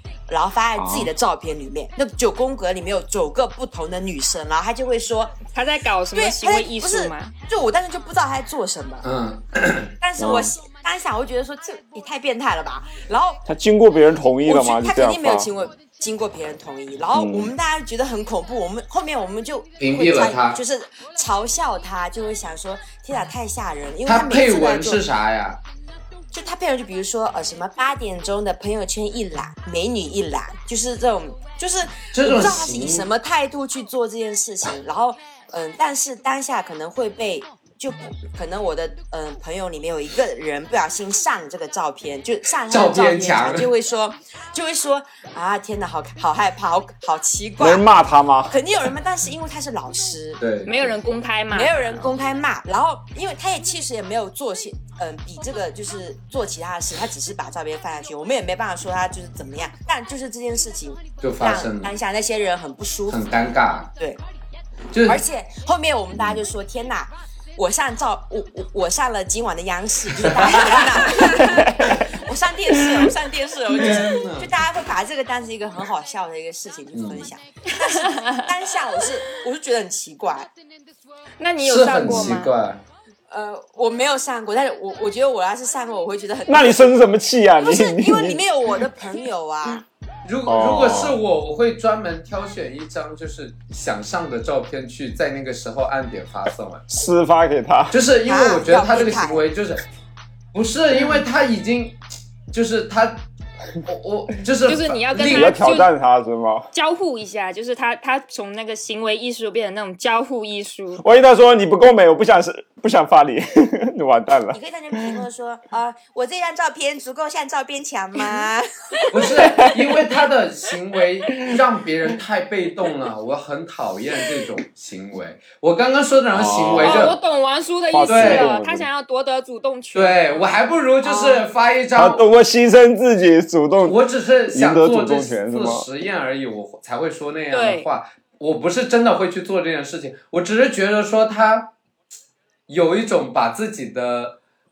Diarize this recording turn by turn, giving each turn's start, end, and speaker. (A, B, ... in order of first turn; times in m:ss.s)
0:00.3-0:05.4 A
0:00.8-0:01.1 B
0:05.5-0:07.3 C
0:06.1-0:09.1 A
0:09.0-0:09.9 D
0:10.0-0:13.4 A
0:10.2-0:10.5 B
0:13.4-0:15.5 B
0:14.4-0:25.0 A
0:17.1-0:17.5 B
0:19.8-0:20.6 D
0:24.0-0:25.6 D
0:26.3-0:47.8 A
0:32.1-0:33.1 D
0:42.7-0:43.7 D
0:47.6-0:48.6 B
0:48.5-0:50.4 A
0:50.4-0:50.9 D
0:50.6-0:52.1 C
0:51.5-1:03.2 A
1:01.2-1:01.9 D
1:03.1-1:03.9 D
1:04.9-1:05.2 D
1:05.0-1:20.5 A
1:10.2-1:11.1 D
1:11.4-1:11.9 B
1:13.7-1:14.5 D
1:16.9-1:17.3 D
1:21.4-1:22.5 C
1:21.6-1:22.8 D
1:23.3-1:26.9 A
1:26.5-1:28.4 B
1:27.6-1:29.8 A
1:30.2-1:36.8 D
1:30.5-1:31.2 B
1:36.9-1:38.0 B
1:37.9-1:39.8 D
1:38.2-1:39.4 A
1:40.5-1:42.0 D
1:42.5-1:43.2 D
1:43.8-1:45.5 D
1:44.7-1:45.9 C
1:45.2-1:46.7 B
1:46.7-1:51.0 C
1:51.0-1:55.1 B
1:54.5-1:59.2 A
1:59.1-2:07.2 D
1:59.4-1:59.7 B
2:06.3-2:07.2 B
2:06.8-2:10.4 C
2:07.9-2:08.9 B
2:08.1-2:08.5 D
2:09.9-2:12.2 D
2:11.0-2:11.4 C
2:12.0-2:14.0 B
2:13.8-2:21.7 D
2:14.5-2:15.9 B
2:17.5-2:17.9 C
2:22.7-2:24.4 D